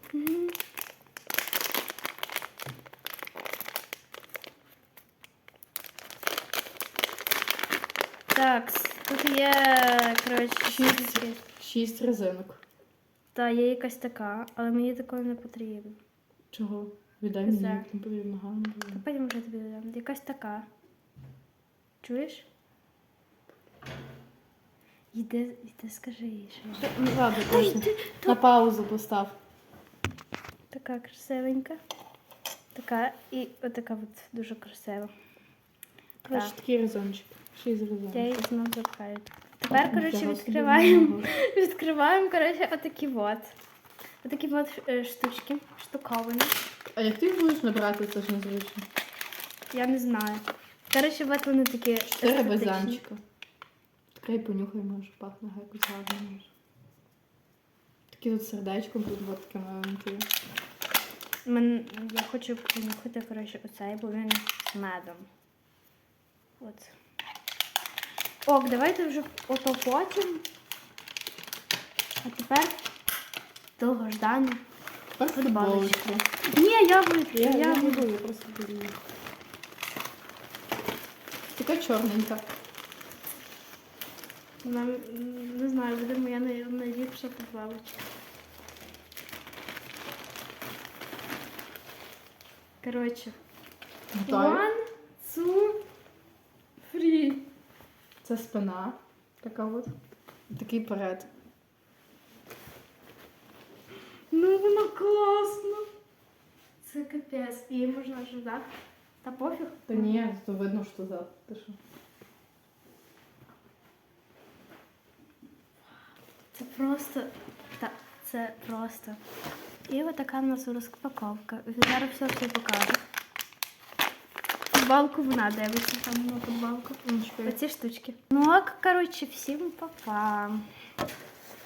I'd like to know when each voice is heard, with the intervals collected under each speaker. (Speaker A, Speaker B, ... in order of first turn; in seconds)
Speaker A: 0.1-0.6, 8.3-11.4, 13.3-16.0, 17.4-17.9, 18.9-20.7, 22.0-22.5, 25.1-28.4, 30.7-31.8, 32.7-35.1, 38.1-43.5, 44.2-46.6, 49.7-53.0, 61.5-65.3, 66.6-66.9, 68.4-70.5, 72.2-72.8, 73.8-74.6, 75.3-78.1, 84.6-88.0, 92.8-93.4, 94.3-95.8, 96.8-97.5, 104.3-105.9, 106.8-108.7, 109.2-110.3, 116.5-119.2, 119.9-123.0, 124.7-130.7
Speaker B: 10.7-12.6, 16.5-19.0, 26.8-29.4, 36.2-38.5, 39.8-41.3, 47.0-48.9, 52.2-53.2, 54.1-56.5, 58.1-60.3, 75.2-76.3, 77.3-79.0, 81.6-82.4, 94.1-94.7, 98.2-99.9, 100.5-101.3, 109.9-111.8, 127.0-127.6